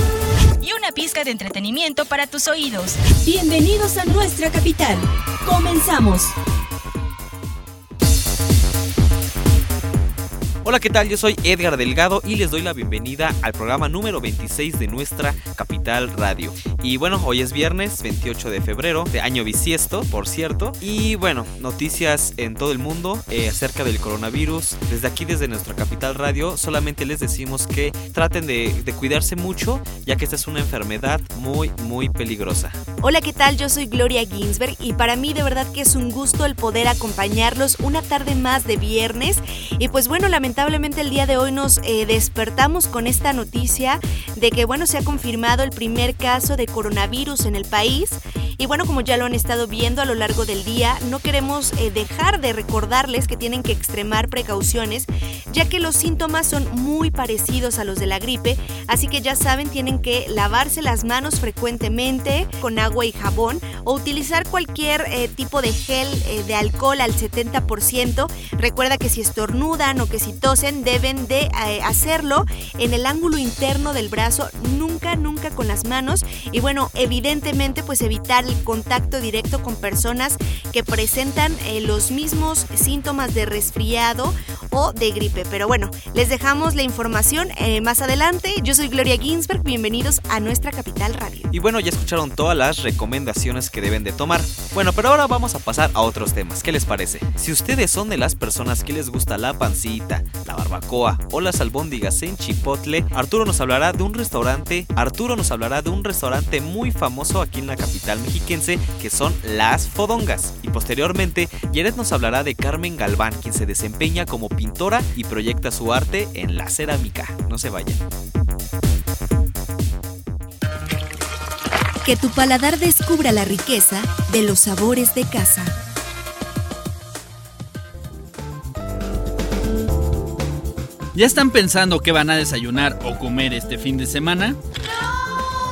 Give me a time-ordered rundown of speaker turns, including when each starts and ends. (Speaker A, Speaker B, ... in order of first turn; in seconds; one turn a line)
Speaker A: 0.6-2.9
Speaker B: 2.9-6.3
Speaker A: 3.4-4.0
Speaker C: 10.6-32.8
Speaker D: 33.0-91.5
Speaker C: 91.5-118.0
Speaker D: 122.0-125.8
Speaker E: 131.1-134.6